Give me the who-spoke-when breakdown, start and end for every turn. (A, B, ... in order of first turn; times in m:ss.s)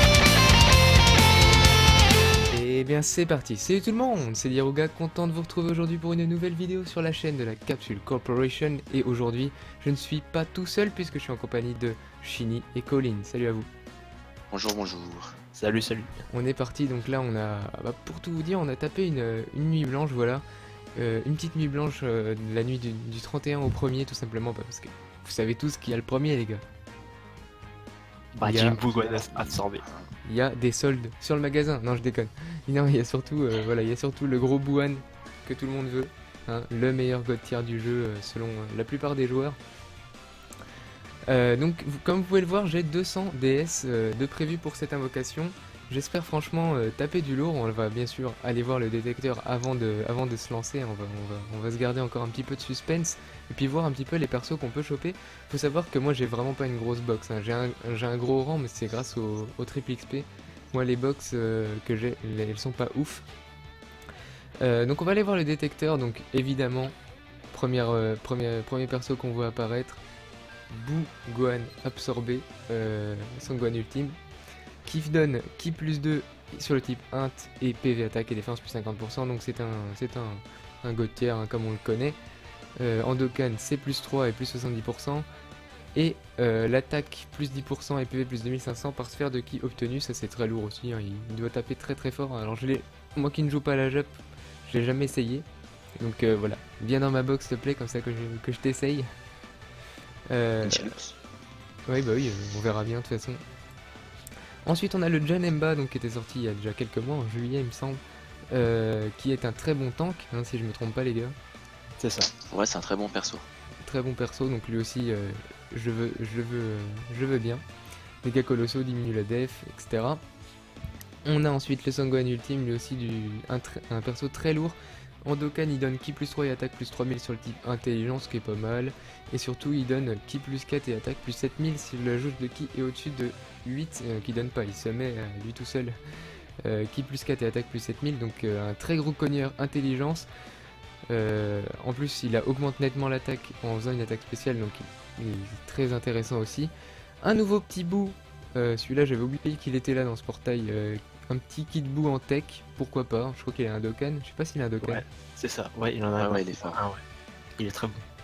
0:02.5-0:13.7 A
0:14.5-0:15.3 B
0:15.6-0:16.1 C
0:16.3-0:20.4 A
0:21.0-0:26.6 A
0:28.4-0:29.8 C
0:28.4-0:28.8 A
0:28.9-0:30.1 B
0:30.2-0:39.6 A
0:41.3-1:03.3 A
1:04.6-1:06.9 A
1:07.5-1:10.0 A
1:10.7-1:14.2 A
1:14.8-1:22.2 A
1:22.8-1:25.3 A
1:26.0-1:35.5 A
1:36.0-1:39.1 A
1:40.3-1:40.9 A
1:40.6-1:41.2 B
1:41.9-1:43.4 A
1:44.6-1:48.0 A
1:48.5-1:51.4 A
1:52.0-1:52.3 C
1:52.5-1:53.5 B
1:53.8-1:57.6 A
1:58.2-2:00.2 A
2:01.2-2:16.0 A
2:16.6-2:20.3 A
2:21.1-2:35.0 A
2:34.8-2:37.0 C
2:36.2-2:36.8 B
2:37.6-2:38.0 C